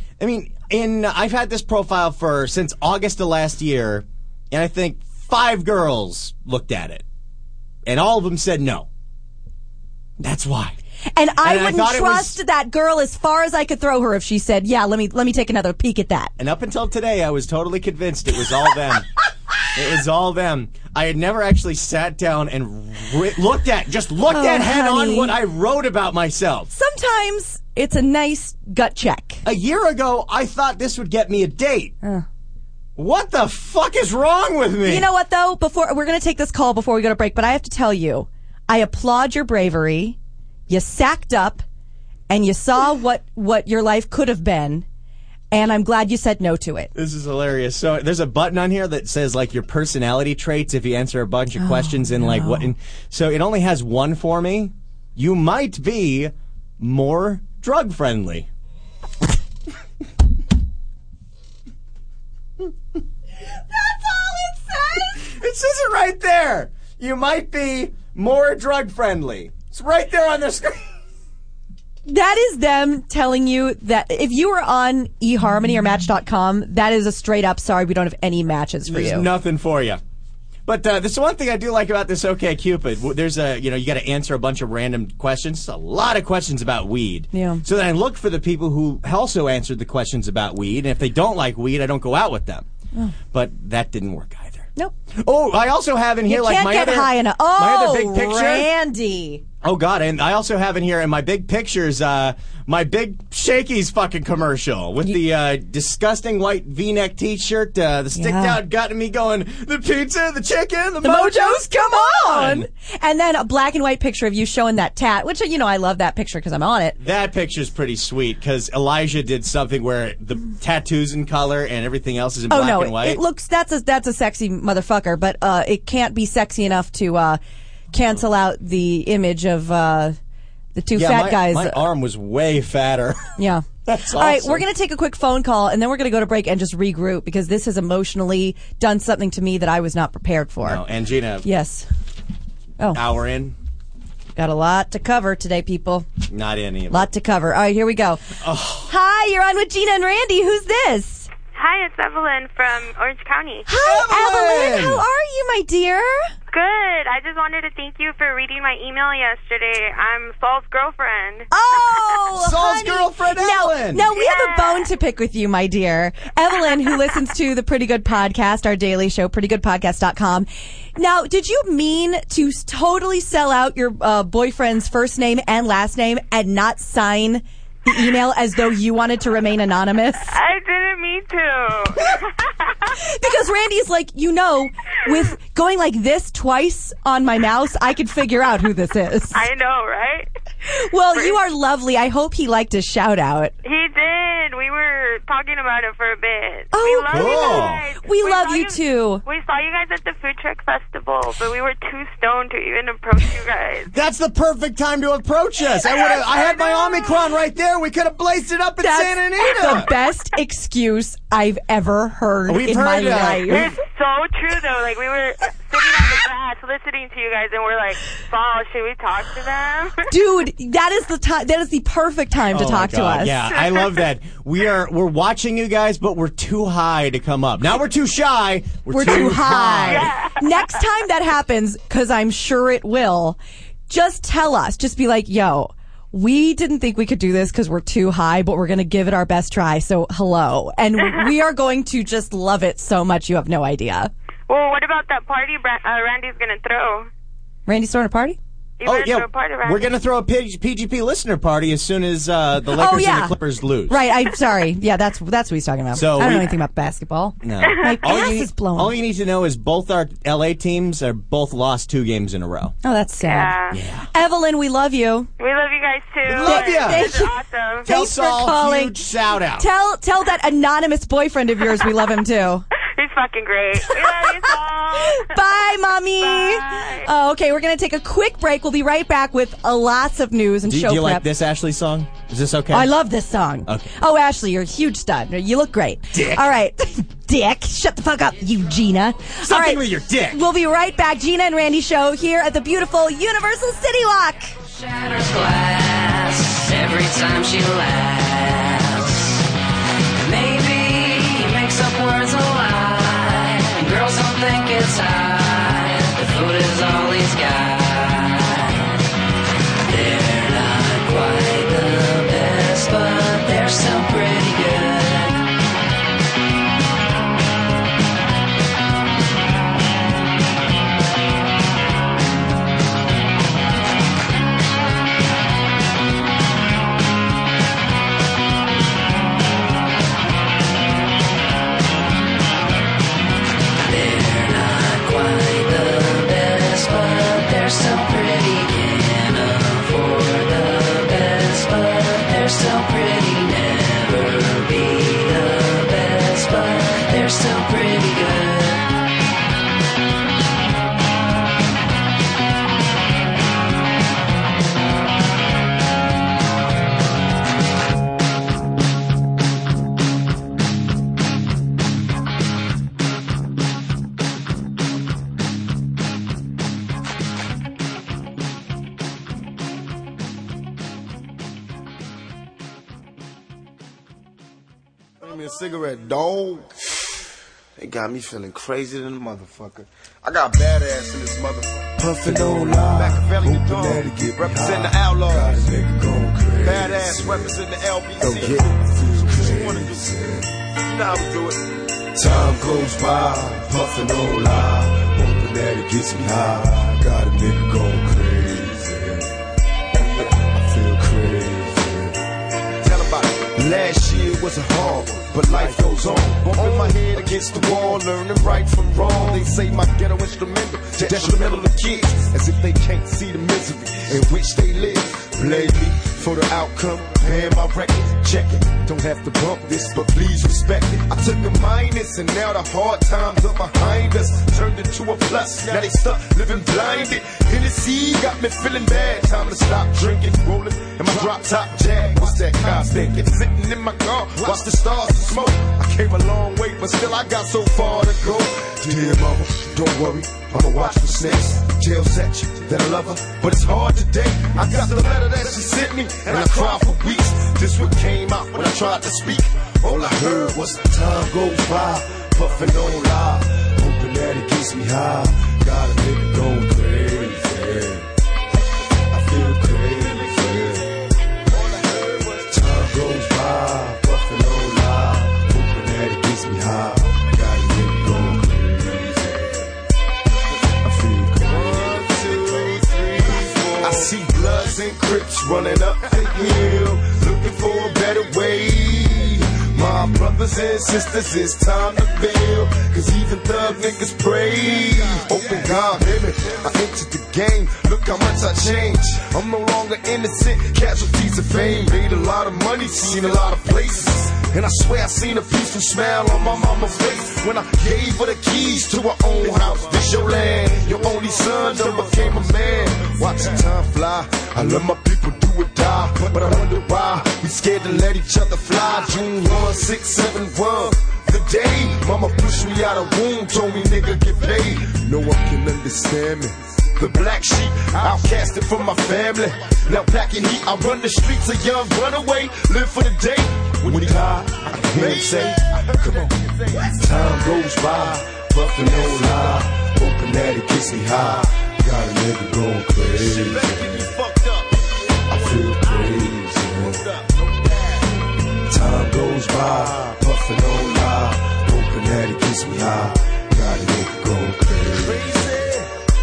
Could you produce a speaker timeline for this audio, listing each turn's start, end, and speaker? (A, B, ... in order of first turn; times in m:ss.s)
0:00.2-0:07.0 A
0:07.8-0:08.9 A
0:10.2-0:10.8 A
0:11.1-0:16.3 B
0:11.4-0:12.4 A
0:16.4-0:19.1 A
0:19.7-0:26.7 A
0:24.3-0:25.3 B
0:26.7-0:29.4 B
0:29.4-0:32.0 A
0:33.0-0:35.1 A
0:34.8-0:40.2 B
0:40.7-0:41.6 B
0:42.3-0:44.8 B
0:45.5-0:46.9 B
0:46.9-0:58.5 A
0:51.6-0:52.7 B
1:03.7-1:05.2 B
1:05.2-1:10.9 A
1:12.1-1:19.3 B
1:18.9-1:20.0 A
1:20.6-1:32.6 A
1:27.3-1:27.6 B
1:33.3-1:38.7 A
1:36.3-1:39.4 B
1:39.6-1:52.7 A
1:48.1-1:48.6 B
1:51.0-1:57.0 B
1:57.0-2:03.2 A
2:02.5-2:07.4 B
2:07.9-2:10.2 B
2:10.7-2:11.8 B
2:10.9-2:13.3 A
2:13.4-2:20.8 B
2:13.8-2:14.6 A
2:20.6-2:21.5 A
2:21.4-2:21.8 B
2:22.9-2:23.6 A
2:24.4-2:26.1 B
2:26.3-2:27.1 A
2:26.9-2:28.2 B
2:28.4-2:28.9 A
2:28.9-2:31.3 B
2:31.5-2:33.7 C
2:33.7-2:36.2 B
2:33.7-2:35.0 A
2:36.5-2:41.5 C
2:41.5-3:00.3 B
2:42.3-2:44.1 A
2:44.2-2:44.7 C
3:00.3-3:02.8 C
3:03.0-3:09.4 B
3:09.3-3:10.3 C
3:10.7-3:13.5 B
3:11.1-3:11.4 C
3:13.6-3:23.9 C
3:16.7-3:19.2 B
3:17.1-3:17.8 A
3:23.9-3:29.9 A
3:28.8-3:33.7 B
3:32.5-3:33.8 A
3:33.5-3:40.0 C
3:40.1-3:43.4 B
3:42.5-3:50.2 A
3:43.4-3:44.0 C
3:48.9-3:53.4 B
3:49.9-3:50.3 C
3:53.9-4:04.1 B
4:04.5-4:07.1 C
4:07.7-4:08.4 B
4:08.8-4:09.9 C
4:08.8-4:14.0 A
4:12.7-4:13.3 B
4:13.9-4:19.0 B
4:15.9-4:16.5 A
4:17.4-4:22.7 A
4:22.8-4:23.6 B
4:23.2-4:23.8 C
4:23.7-4:24.0 A
4:24.1-4:25.3 B
4:25.4-4:27.9 C
4:26.3-4:27.2 A
4:26.3-4:29.0 B
4:27.8-4:29.7 A
4:29.6-4:32.6 B
4:33.0-4:35.4 C
4:34.0-4:41.3 B
4:36.2-4:37.1 C
4:40.6-4:42.9 A
4:42.7-4:54.5 B
4:46.1-4:46.5 A
4:49.4-4:50.4 A
4:54.6-4:59.4 D
5:00.2-5:09.0 D
5:09.8-5:15.4 D
5:33.8-5:48.8 D
6:15.2-6:16.6 E
6:17.8-6:25.8 E
6:22.0-6:30.5 F
6:26.6-6:30.2 E
6:30.9-6:31.6 E
6:32.2-6:39.2 F
6:40.0-6:42.1 F
6:42.8-7:38.0 F
6:42.9-6:43.2 E
6:45.6-6:47.0 E
6:50.4-6:51.7 E
7:39.1-7:40.8 F
7:41.5-7:42.4 E
7:41.5-7:49.5 F
7:50.8-8:54.3 F
7:51.4-7:54.1 E
8:44.9-8:46.3 E
8:49.0-8:49.5 E
8:53.0-8:54.7 E
8:55.3-8:57.2 F
8:55.4-8:57.5 E
8:58.7-9:05.8 F
9:04.8-9:05.8 E